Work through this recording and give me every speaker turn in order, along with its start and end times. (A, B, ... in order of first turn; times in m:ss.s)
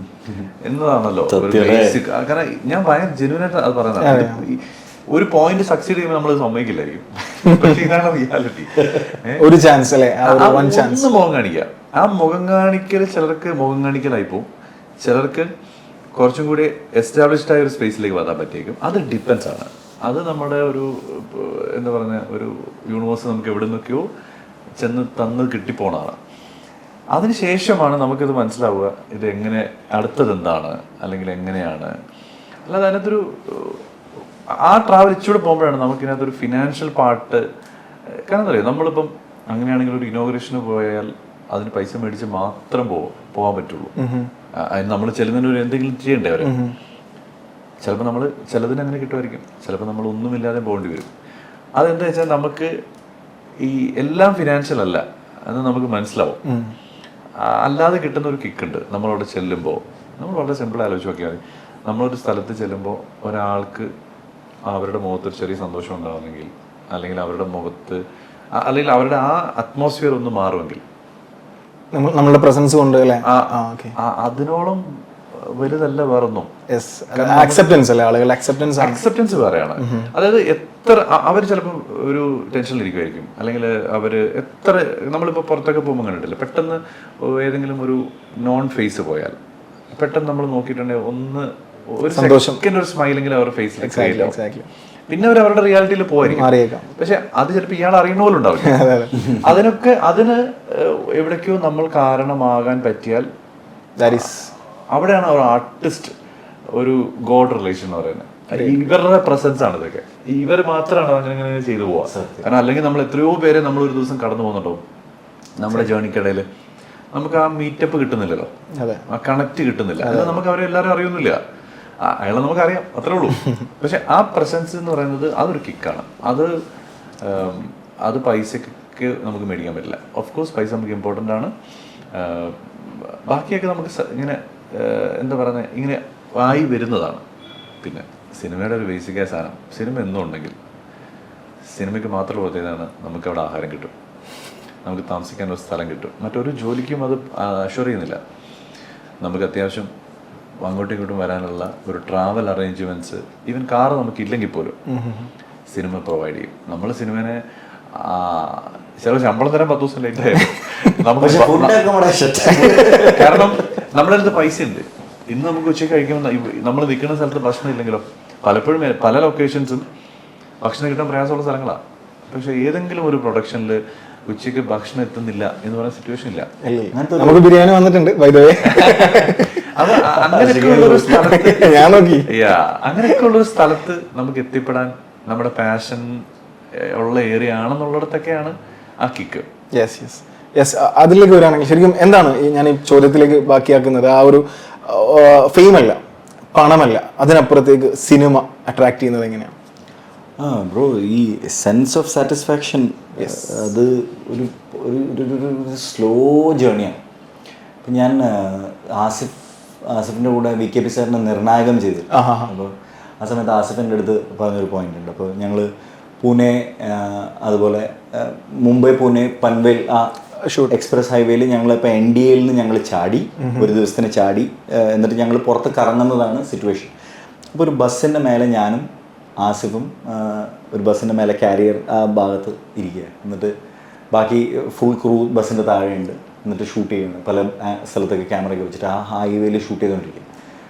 0:00.6-0:09.5 A
0:01.3-0:02.0 B
0:04.0-0:04.4 C
0:09.4-0:11.0 C
0:10.2-0:14.5 A
0:15.0-0:15.5 A
0:16.1-0:24.1 A
0:24.8-0:26.2 A
0:27.1-0:31.9 A
0:32.6-0:33.8 A
0:34.6-0:37.4 A
0:38.1-0:43.9 A
0:44.0-0:44.3 C
0:44.5-0:46.5 A
0:46.4-0:46.7 C
0:47.8-0:51.1 A
0:51.7-0:52.7 A
0:53.6-0:56.4 A
0:56.4-0:56.7 C
0:57.4-1:03.9 A
1:04.6-1:08.0 A
1:08.5-1:10.8 A
1:11.9-1:13.9 C
1:13.2-1:16.5 A
1:16.7-1:19.0 C
1:17.1-1:17.8 A
1:18.8-1:29.4 A
1:19.8-1:20.1 C
1:29.9-1:34.3 A
1:32.1-1:32.6 C
1:33.8-1:34.6 C
1:35.1-1:43.3 A
1:36.2-1:36.8 C
1:38.6-1:39.2 C
1:39.2-1:39.5 B
1:44.0-1:44.5 C
1:44.0-1:44.3 A
1:44.9-1:46.1 A
1:46.7-1:54.8 A
1:48.5-1:48.8 C
1:52.1-1:52.5 B
1:55.6-1:56.5 A
1:57.1-1:58.5 A
1:58.7-1:59.0 C
1:59.1-2:01.4 A
2:00.0-2:00.4 C
2:02.0-2:06.6 A
2:07.2-2:11.5 A
2:12.1-2:17.2 A
2:17.8-2:20.6 A
2:21.7-2:23.9 A
2:24.8-2:28.2 A
2:29.2-2:29.9 A
2:30.6-2:34.8 A
2:34.9-2:35.3 C
2:35.7-2:37.4 A
2:37.9-2:41.8 A
2:41.2-2:43.5 B
2:42.6-2:49.8 A
2:50.6-2:56.5 A
2:56.6-2:59.6 C
2:56.9-2:57.4 B
2:58.6-3:09.5 A
3:00.2-3:01.3 B
3:01.1-3:02.3 C
3:09.7-3:16.0 C
3:16.5-3:19.5 C
3:20.4-3:27.0 B
3:23.2-3:23.5 C
3:27.8-3:35.7 B
3:32.1-3:32.5 C
3:36.2-3:40.1 B
3:40.4-3:40.7 C
3:40.7-3:46.9 B
3:43.4-3:43.7 C
3:47.5-3:48.9 B
3:49.4-3:53.5 B
3:54.1-4:00.3 B